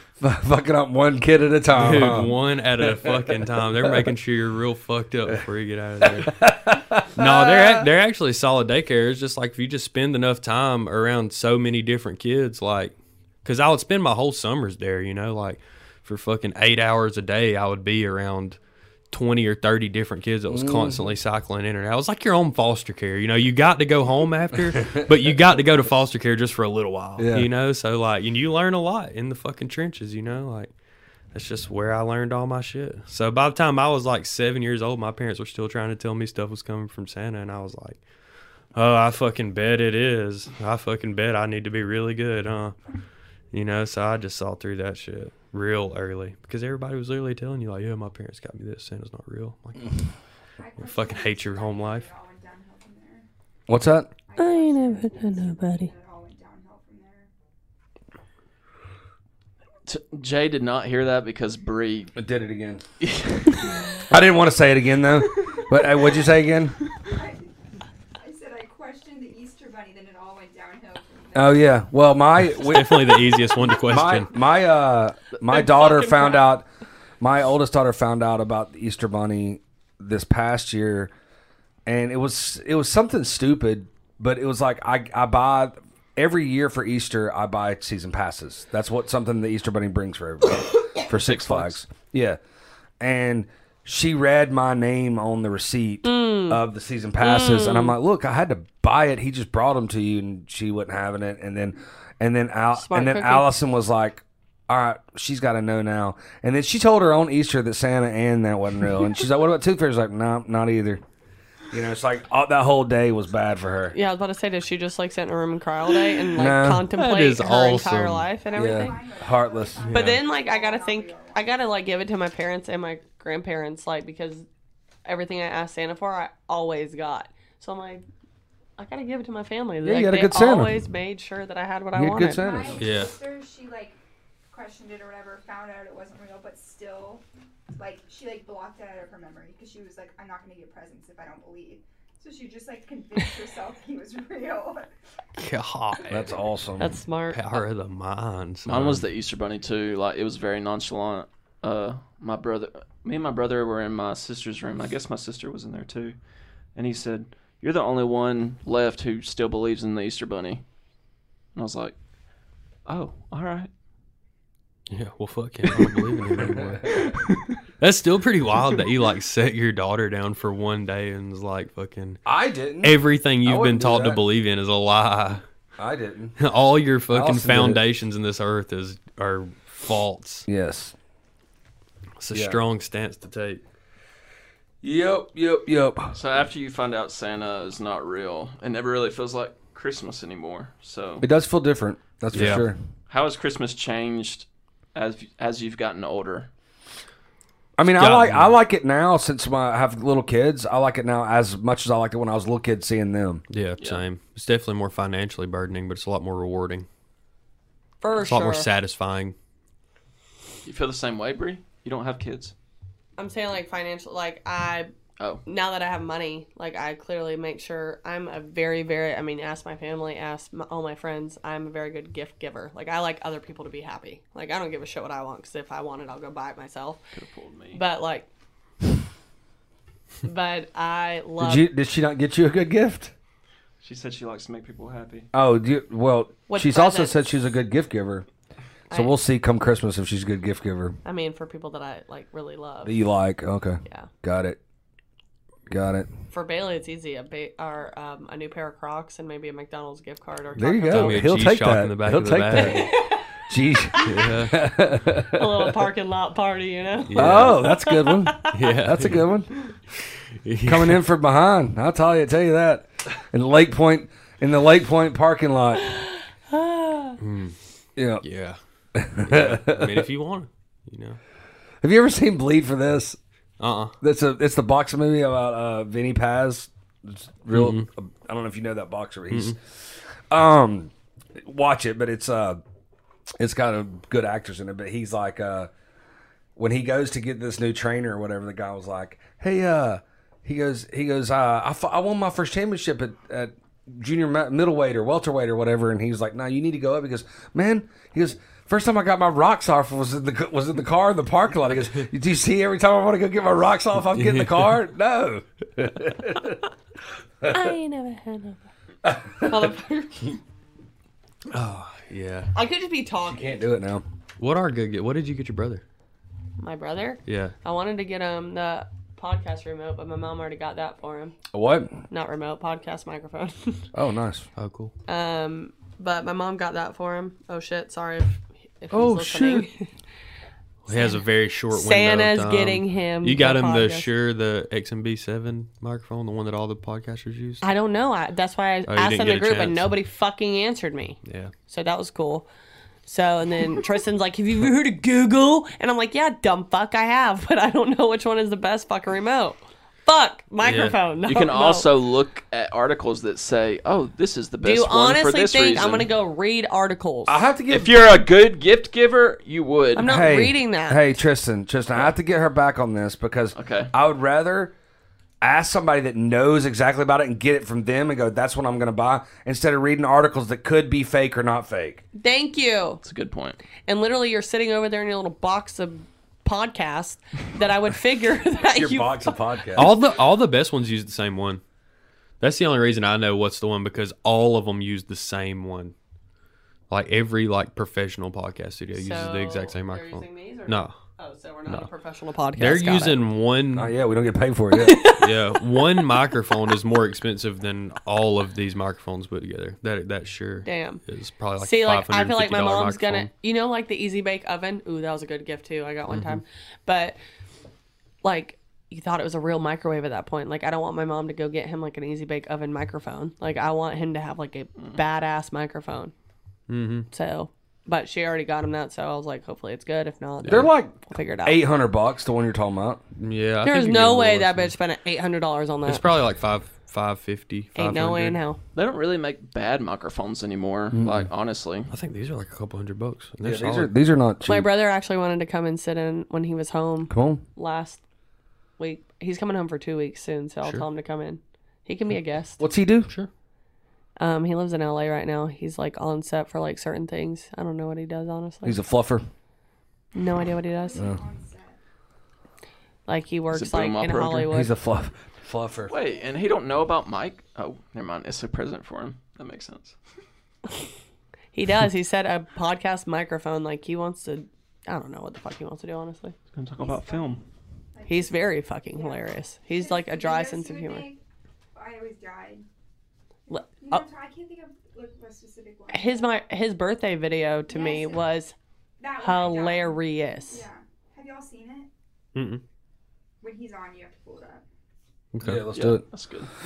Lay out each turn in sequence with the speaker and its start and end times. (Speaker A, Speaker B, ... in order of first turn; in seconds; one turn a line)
Speaker A: 0.2-2.4
Speaker B: 1.7-6.5
Speaker A: 3.0-4.0
Speaker A: 6.0-7.9
Speaker B: 7.1-18.6
Speaker B: 19.1-30.7
Speaker A: 20.5-21.1
Speaker A: 24.7-25.1
Speaker A: 27.2-27.5
Speaker B: 31.3-38.0
Speaker B: 38.8-42.8
Speaker B: 43.5-50.1
Speaker C: 50.6-53.3
Speaker B: 50.8-52.1
Speaker A: 53.7-54.1
Speaker C: 54.2-57.3
Speaker D: 54.4-55.9
Speaker E: 59.9-62.2
Speaker A: 62.1-62.8
Speaker E: 63.0-63.8
Speaker A: 64.1-66.8
Speaker C: 67.0-67.5
Speaker C: 68.2-71.8
Speaker A: 71.3-76.7
Speaker B: 72.6-74.3
Speaker D: 75.4-76.5
Speaker A: 77.2-81.1
Speaker A: 81.9-92.4
Speaker E: 91.0-91.8
Speaker A: 93.0-111.0
Speaker D: 96.0-96.6
Speaker D: 97.2-98.0
Speaker D: 102.8-103.5
Speaker A: 111.7-114.0
Speaker D: 113.9-119.0
Speaker A: 116.4-116.9
Speaker B: 116.9-118.3
Speaker C: 118.5-121.5
Speaker A: 118.5-120.1
Speaker B: 119.8-120.2
Speaker D: 119.9-124.5
Speaker D: 125.0-128.1
Speaker D: 128.8-132.6
Speaker A: 129.8-130.8
Speaker A: 131.9-132.8
Speaker C: 132.3-134.0
Speaker B: 132.8-133.2
Speaker C: 134.5-144.9
Speaker B: 145.4-146.4
Speaker A: 146.1-146.9
Speaker D: 146.8-147.6
Speaker B: 147.3-149.1
Speaker E: 148.7-156.2
Speaker E: 156.8-160.6
Speaker E: 161.6-161.9
Speaker E: 162.9-163.7
Speaker B: 164.9-167.1
Speaker A: 166.5-166.8
Speaker E: 166.9-167.6
Speaker B: 167.8-172.2
Speaker A: 172.3-174.2
Speaker B: 172.8-175.4
Speaker A: 175.8-176.4
Speaker B: 176.4-180.5
Speaker A: 177.1-177.8
Speaker A: 180.5-180.9
Speaker B: 182.2-183.6
Speaker A: 182.3-182.6
Speaker A: 184.8-186.2
Speaker E: 186.1-191.2
Speaker A: 191.2-192.8
Speaker B: 192.3-192.7
Speaker E: 193.1-196.5
Speaker A: 197.8-203.4
Speaker B: 198.0-198.5
Speaker B: 203.5-206.9
Speaker D: 208.0-208.7
Speaker B: 208.1-209.3
Speaker E: 210.7-212.5
Speaker D: 213.2-214.9
Speaker D: 215.5-227.0
Speaker E: 227.1-227.8
Speaker D: 227.7-228.3
Speaker D: 230.2-231.7
Speaker A: 231.4-233.1
Speaker E: 233.8-235.3
Speaker A: 235.3-238.3
Speaker D: 236.5-237.2
Speaker D: 238.9-239.2
Speaker A: 238.9-241.0
Speaker D: 241.1-243.0
Speaker A: 242.8-244.6
Speaker A: 245.7-246.1
Speaker D: 246.3-251.3
Speaker A: 250.6-255.9
Speaker B: 250.9-252.9
Speaker D: 252.5-254.2
Speaker B: 254.0-254.6
Speaker D: 255.2-258.8
Speaker B: 257.0-257.6
Speaker A: 257.2-259.5
Speaker B: 258.5-259.3
Speaker B: 259.9-261.0
Speaker A: 260.7-265.8
Speaker D: 265.8-267.2
Speaker B: 267.2-267.6
Speaker A: 268.0-268.2
Speaker B: 268.2-268.6
Speaker A: 268.9-270.1
Speaker B: 269.2-271.2
Speaker A: 271.8-273.2
Speaker B: 273.6-273.9
Speaker A: 274.0-282.6
Speaker B: 277.5-277.9
Speaker B: 279.3-279.6
Speaker A: 283.4-285.7
Speaker A: 286.6-306.6
Speaker B: 304.0-304.8
Speaker D: 307.5-308.6
Speaker A: 309.0-309.7
Speaker D: 309.4-310.3
Speaker B: 311.5-312.5
Speaker D: 312.6-313.6
Speaker A: 313.2-314.0
Speaker B: 314.4-315.8
Speaker D: 316.6-321.4
Speaker B: 317.3-317.6
Speaker A: 321.5-322.0
Speaker D: 322.1-323.9
Speaker A: 323.9-324.5
Speaker B: 324.6-324.9
Speaker D: 325.1-329.9
Speaker A: 328.9-329.7
Speaker B: 330.9-337.6
Speaker D: 330.9-334.1
Speaker D: 337.6-342.5
Speaker B: 338.9-339.9
Speaker B: 341.2-341.5
Speaker D: 343.1-351.9
Speaker B: 350.6-351.0
Speaker E: 351.3-356.1
Speaker D: 354.6-357.4
Speaker A: 357.3-358.1
Speaker E: 357.7-360.1
Speaker D: 360.0-361.1
Speaker A: 360.0-364.7
Speaker E: 363.5-363.9
Speaker A: 365.4-372.0
Speaker D: 372.1-373.0
Speaker E: 373.0-373.6
Speaker D: 373.9-379.8
Speaker A: 378.7-379.9
Speaker B: 379.8-381.6
Speaker B: 382.4-385.9
Speaker B: 386.9-391.0
Speaker D: 388.9-393.2
Speaker B: 392.6-393.9
Speaker A: 393.8-395.1
Speaker D: 394.7-395.8
Speaker B: 395.0-403.3
Speaker D: 400.6-401.0
Speaker D: 401.6-407.2
Speaker B: 406.1-406.4
Speaker D: 408.2-416.1
Speaker B: 416.7-417.1
Speaker D: 417.1-421.6
Speaker A: 420.4-423.0
Speaker B: 423.2-424.7
Speaker D: 423.6-426.1
Speaker B: 425.9-428.4
Speaker D: 427.8-428.6
Speaker E: 428.8-431.9
Speaker A: 430.9-431.3
Speaker B: 431.9-433.9
Speaker A: 433.4-434.7
Speaker D: 434.5-438.0
Speaker A: 437.1-437.4
Speaker D: 438.8-442.6
Speaker A: 442.6-443.1
Speaker D: 444.2-448.8
Speaker A: 448.6-449.2
Speaker D: 450.1-451.1
Speaker C: 450.7-451.8
Speaker D: 453.1-454.7
Speaker E: 453.5-454.5
Speaker A: 454.5-455.9
Speaker E: 455.9-460.0
Speaker D: 461.6-466.4
Speaker E: 466.5-467.4
Speaker C: 466.8-467.4
Speaker C: 467.9-471.2
Speaker D: 468.1-471.1
Speaker C: 471.8-472.7
Speaker D: 473.5-474.0
Speaker C: 473.8-476.4
Speaker D: 475.9-478.6
Speaker C: 477.7-478.2
Speaker C: 479.0-481.9
Speaker D: 479.2-480.6
Speaker B: 482.4-482.6
Speaker C: 483.4-484.6
Speaker B: 485.3-485.6
Speaker A: 485.4-486.0
Speaker E: 485.7-486.5